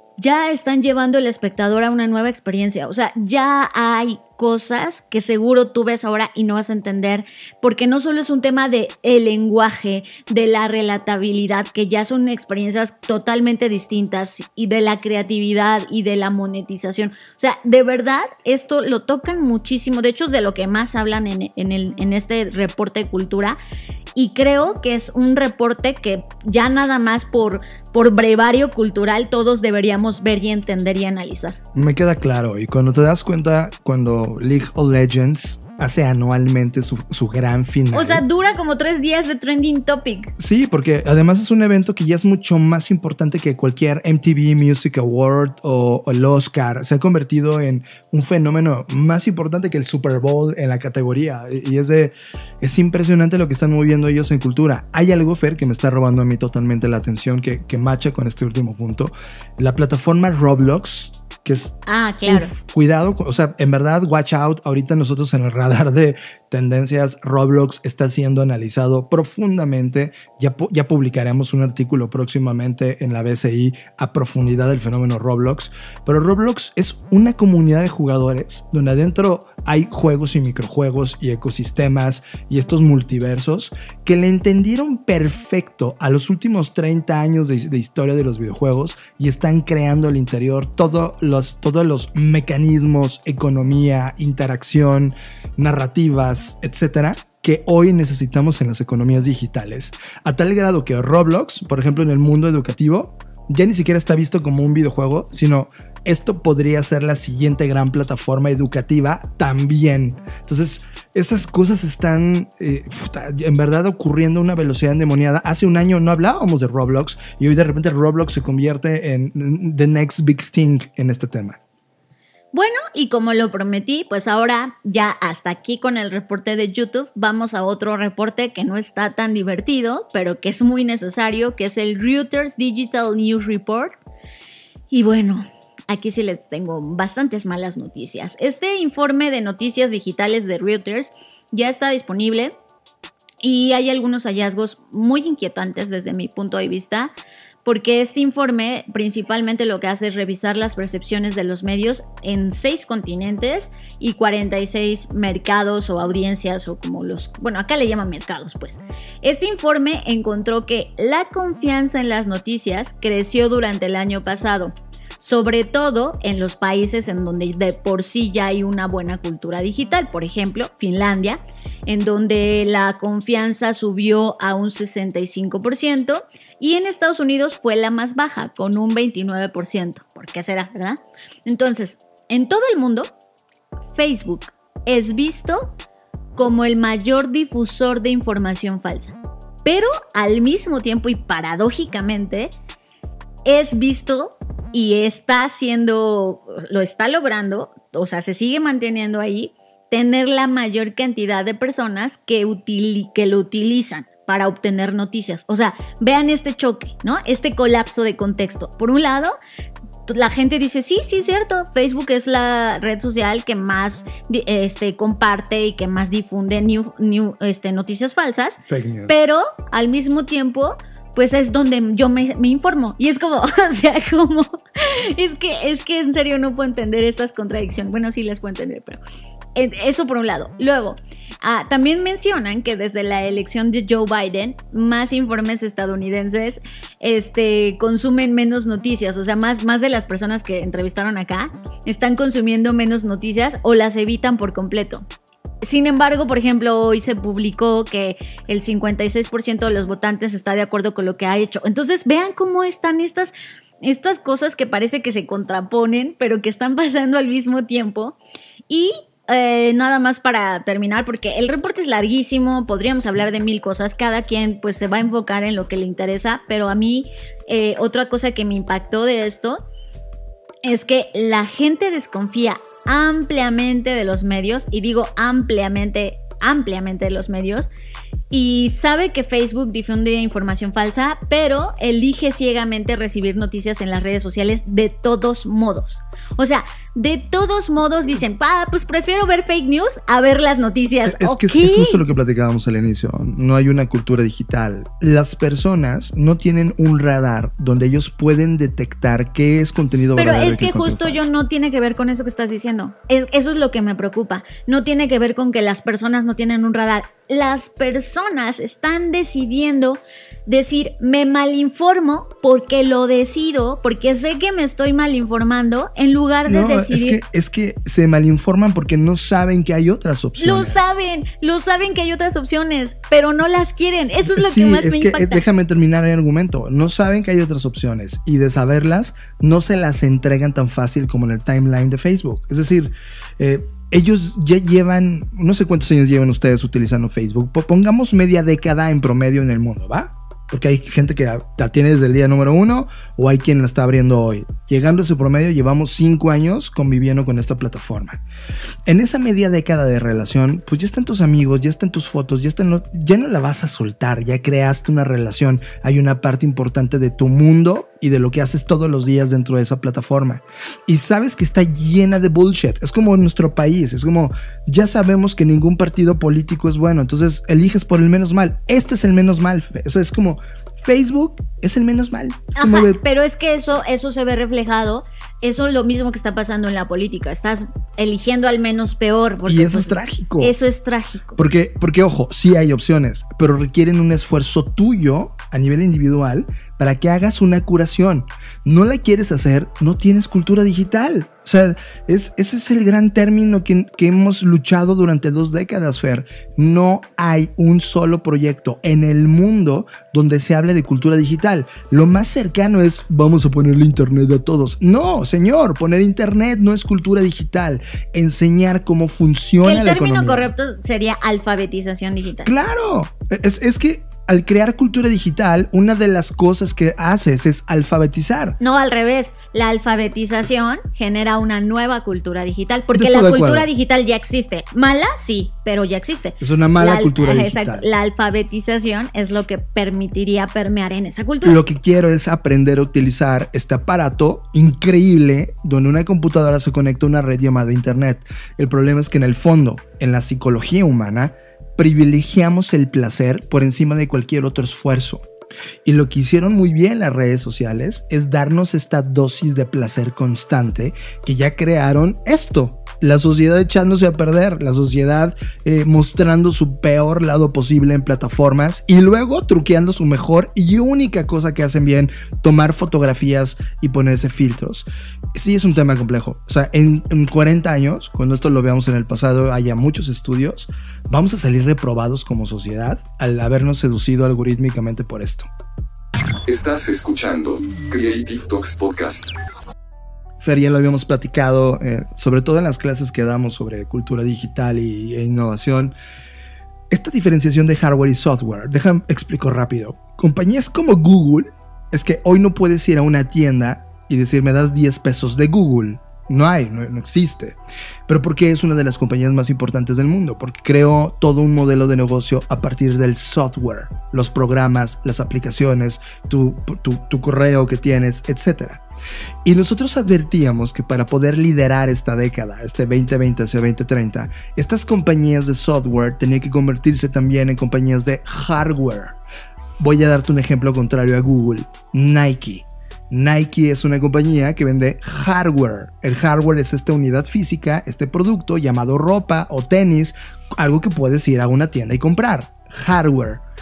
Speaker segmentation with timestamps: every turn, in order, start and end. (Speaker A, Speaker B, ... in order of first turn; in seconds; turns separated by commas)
Speaker A: 0.2-23.6, Speaker A: 24.1-31.6, Speaker B: 31.7-38.2, Speaker A: 37.9-40.3, Speaker B: 40.4-121.6, Speaker A: 61.9-62.5, Speaker A: 122.5-134.0, Speaker A: 134.9-142.5, Speaker A: 143.4-147.1, Speaker A: 147.6-183.1, Speaker A: 183.9-185.7, Speaker A: 186.3-192.5, Speaker A: 193.4-209.4, Speaker A: 210.1-229.0, Speaker B: 218.7-219.1, Speaker A: 229.5-245.0, Speaker A: 245.6-258.2, Speaker A: 258.7-269.6, Speaker A: 270.6-277.7, Speaker A: 278.3-292.0, Speaker B: 291.1-301.2, Speaker A: 300.1-317.2, Speaker B: 316.5-320.8, Speaker A: 320.4-325.4, Speaker B: 324.3-348.2, Speaker B: 348.9-373.0, Speaker A: 372.5-381.4, Speaker B: 379.5-380.5, Speaker B: 381.4-410.5, Speaker A: 409.6-412.5, Speaker B: 412.4-418.6, Speaker A: 418.6-431.6, Speaker B: 422.9-423.7, Speaker B: 426.4-427.9, Speaker B: 431.4-445.3, Speaker B: 445.8-475.5, Speaker C: 476.5-479.3, Speaker B: 480.4-485.9, Speaker B: 486.9-508.8, Speaker B: 509.4-519.2, Speaker B: 519.8-533.4